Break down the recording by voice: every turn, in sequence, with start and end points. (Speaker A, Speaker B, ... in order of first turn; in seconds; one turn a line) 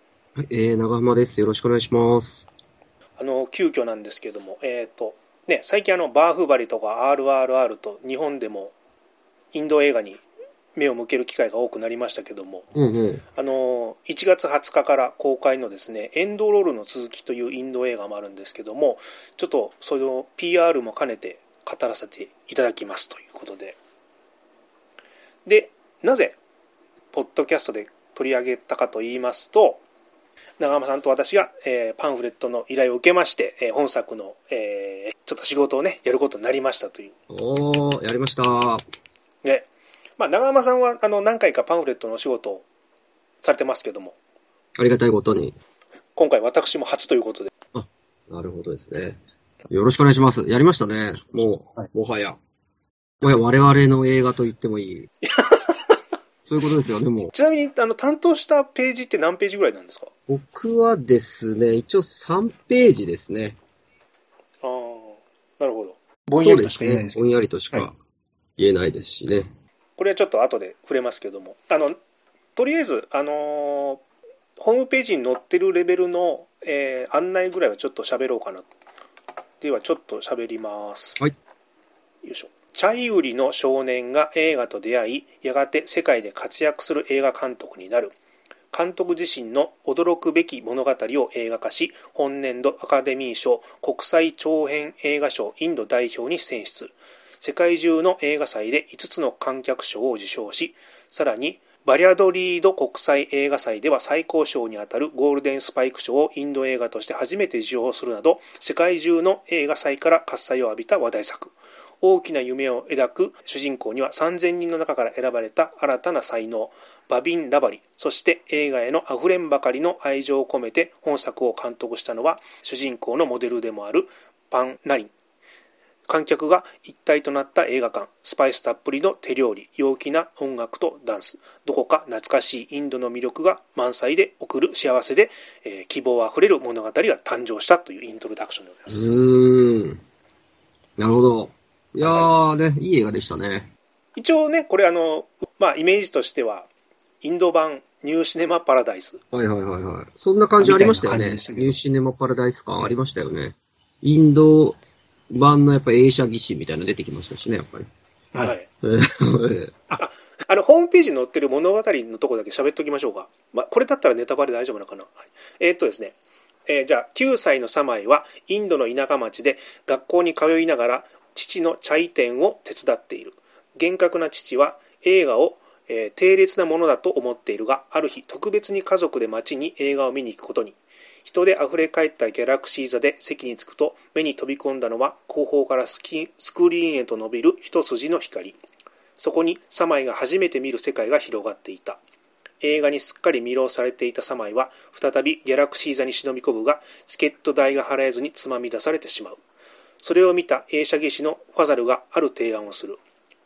Speaker A: 0.3-2.5
Speaker B: 3.2-8.7
Speaker B: 9.5-10.2
Speaker B: 10.7-12.7
Speaker A: 12.7-13.2
Speaker B: 13.3-23.8
Speaker B: 25.4-26.4
Speaker B: 27.1-29.8
Speaker B: 30.6-37.1
Speaker A: 37.3-38.8
Speaker B: 39.4-42.6
Speaker B: 43.4-44.1
Speaker A: 44.8-45.6
Speaker B: 46.1-47.5
Speaker A: 47.7-49.2
Speaker A: 49.7-52.4
Speaker A: 53.2-55.1
Speaker B: 55.2-56.0
Speaker A: 56.5-57.3
Speaker B: 57.3-60.1
Speaker A: 60.3-63.6
Speaker B: 64.6-67.9
Speaker A: 66.3-68.0
Speaker A: 68.6-69.5
Speaker B: 70.0-72.0
Speaker B: 72.5-74.0
Speaker B: 74.6-78.7
Speaker B: 79.6-81.2
Speaker B: 82.2-88.1
Speaker B: 88.7-125.1
Speaker B: 126.1-139.3
Speaker A: 138.9-140.0
Speaker A: 141.0-143.7
Speaker B: 142.0-142.3
Speaker B: 144.2-146.7
Speaker B: 147.2-149.2
Speaker A: 149.3-154.8
Speaker B: 150.6-151.8
Speaker A: 155.3-157.9
Speaker B: 158.3-158.7
Speaker A: 158.4-159.7
Speaker B: 159.9-166.2
Speaker B: 166.7-188.6
Speaker B: 189.2-192.0
Speaker B: 192.6-199.4
Speaker B: 200.0-203.0